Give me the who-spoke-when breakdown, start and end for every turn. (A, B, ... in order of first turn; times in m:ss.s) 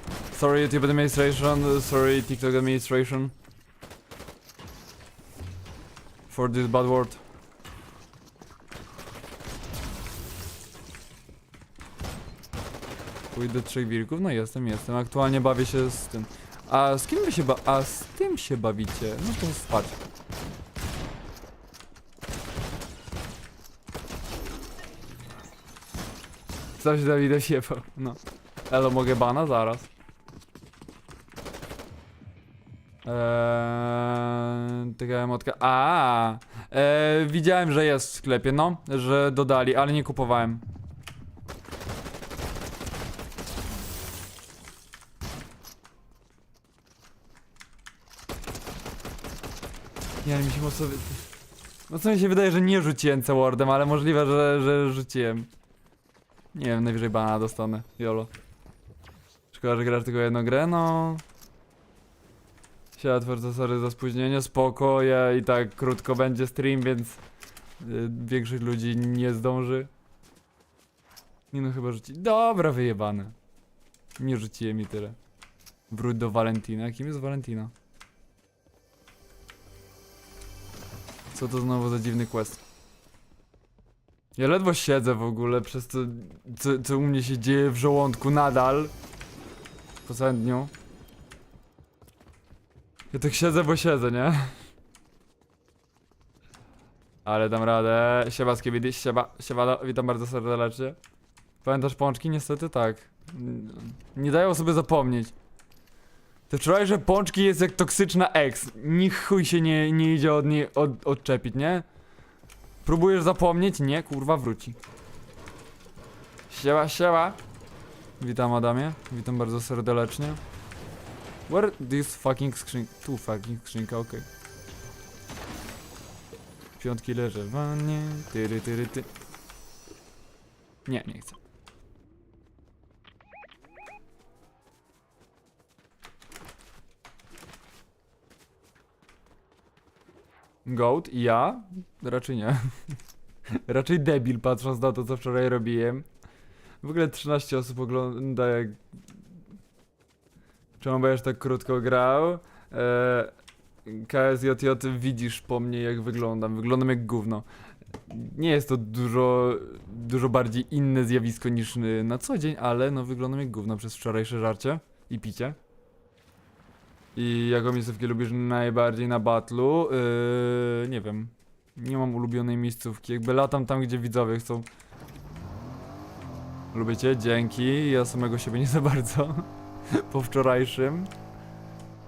0:00.3-0:03.3 A
0:06.3-0:07.2 A
0:13.3-0:20.0 A
0:26.8-0:29.9 A
0:33.0-0:40.6 A
0:50.2-0:51.2 A
0:51.9-0:55.5 A
0:56.5-0:58.3 A
0:59.5-1:01.2 A
1:03.0-1:07.2 A
1:07.8-1:09.9 A
1:11.5-1:13.4 A
1:14.2-1:15.2 A
1:15.9-1:17.7 A
1:21.3-1:22.6 A
1:24.4-1:28.9 A
1:30.0-1:30.7 A
1:33.1-1:34.6 A
1:37.2-1:41.0 A
1:41.6-1:45.3 A
1:46.5-1:51.8 A
1:52.8-1:54.8 A
1:56.5-1:57.4 A
1:58.2-2:00.4 A
2:01.5-2:04.3 A
2:06.8-2:09.1 A
2:10.9-2:11.4 A
2:20.6-2:23.0 A
2:23.6-2:26.1 A
2:26.8-2:28.8 A
2:30.8-2:33.3 A
2:33.8-2:37.5 A
2:38.1-2:45.6 A
2:47.2-2:54.7 A
2:56.7-3:01.1 A